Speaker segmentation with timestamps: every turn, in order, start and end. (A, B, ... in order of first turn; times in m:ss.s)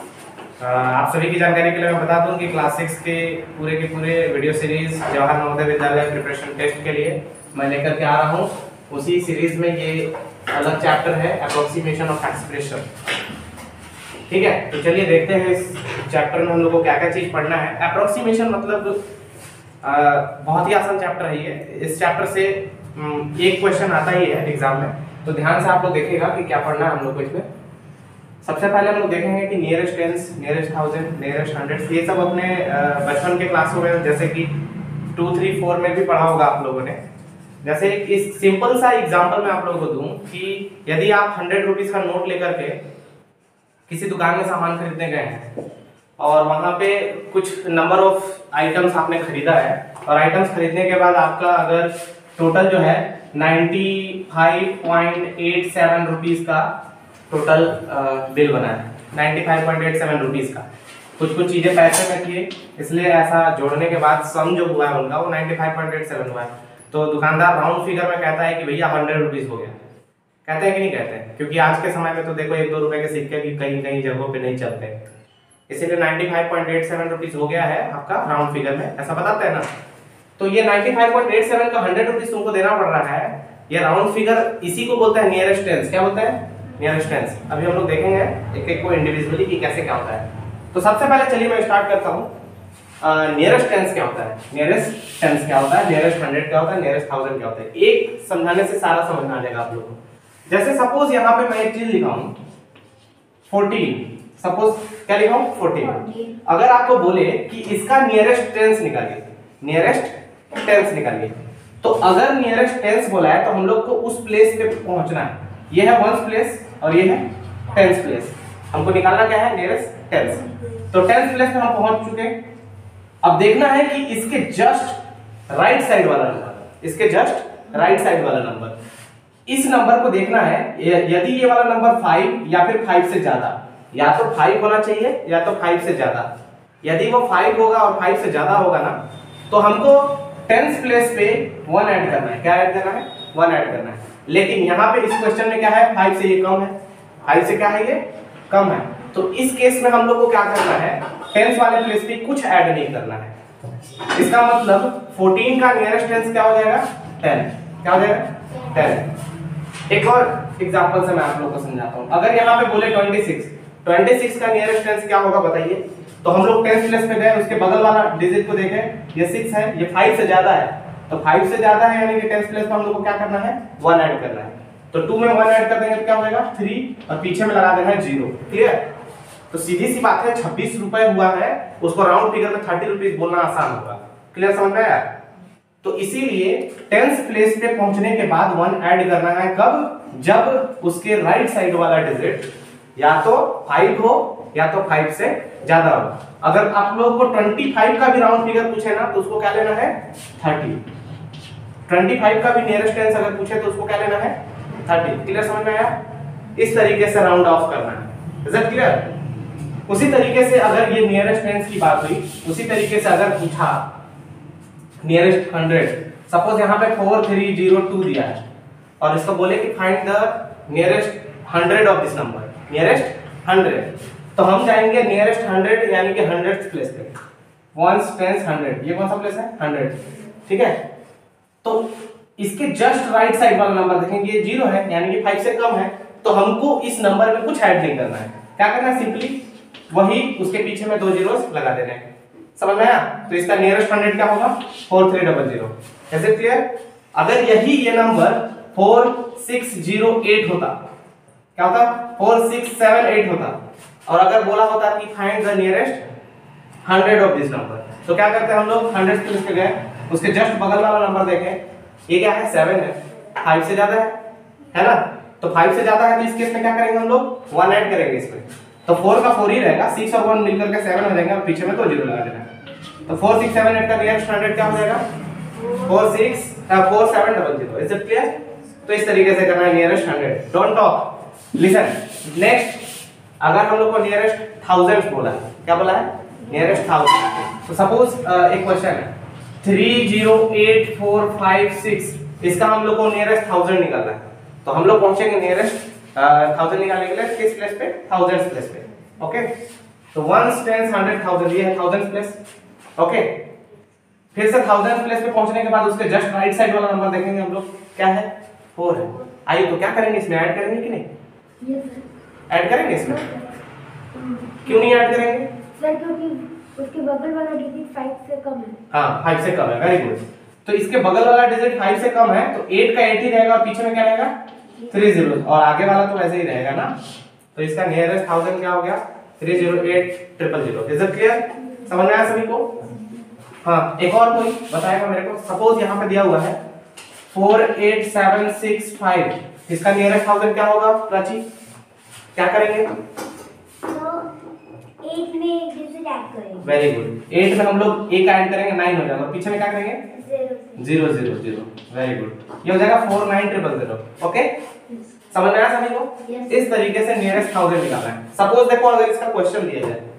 0:00.6-0:12.9 A
0:14.3-0:19.0 A
0:19.8-0:27.4 A
0:28.4-0:34.5 A
0:35.1-0:37.0 A
0:37.6-0:42.8 A
0:43.9-0:45.5 A
0:46.2-0:56.7 A
0:57.3-1:00.6 A
1:01.2-1:09.8 A
1:10.4-1:15.0 A
1:15.7-1:19.7 A
1:20.4-1:32.3 A
1:33.0-1:42.3 A
1:43.5-2:02.3 A
1:45.8-1:46.4 B
2:03.2-2:05.0 A
2:05.5-2:08.7 A
2:09.5-2:16.3 A
2:16.8-2:19.0 A
2:19.5-2:33.3 A
2:34.0-2:39.1 A
2:38.6-2:39.0 B
2:39.9-2:58.8 A
2:59.5-3:05.1 A
3:05.8-3:20.8 A
3:21.9-3:26.0 A
3:26.6-3:29.1 A
3:29.9-3:33.8 A
3:35.0-3:38.4 A
3:39.0-3:47.1 A
3:47.7-3:50.8 A
3:51.6-3:59.4 A
3:59.9-4:02.0 A
4:02.6-4:10.8 A
4:11.6-4:16.1 A
4:16.8-4:24.2 A
4:24.7-4:32.4 A
4:33.1-4:35.0 A
4:35.5-4:36.0 B
4:35.8-4:38.3 A
4:38.8-4:42.9 A
4:43.4-4:49.1 A
4:49.6-4:59.5 A
5:00.1-5:02.4 A
5:03.0-5:03.3 A
5:04.3-5:11.1 A
5:11.6-5:12.1 B
5:12.5-5:13.3 A
5:13.0-5:13.4 B
5:14.1-5:14.9 B
5:14.6-5:15.5 A
5:15.8-5:18.8 B
5:18.9-5:24.3 A
5:24.9-5:26.9 A
5:27.5-5:32.8 A
5:33.6-5:36.6 A
5:37.3-5:41.4 A
5:42.4-5:42.9 A
5:43.8-5:44.3 B
5:45.0-5:46.7 B
5:46.6-5:50.0 A
5:50.1-5:50.9 B
5:50.8-5:54.5 A
5:55.3-6:00.0 A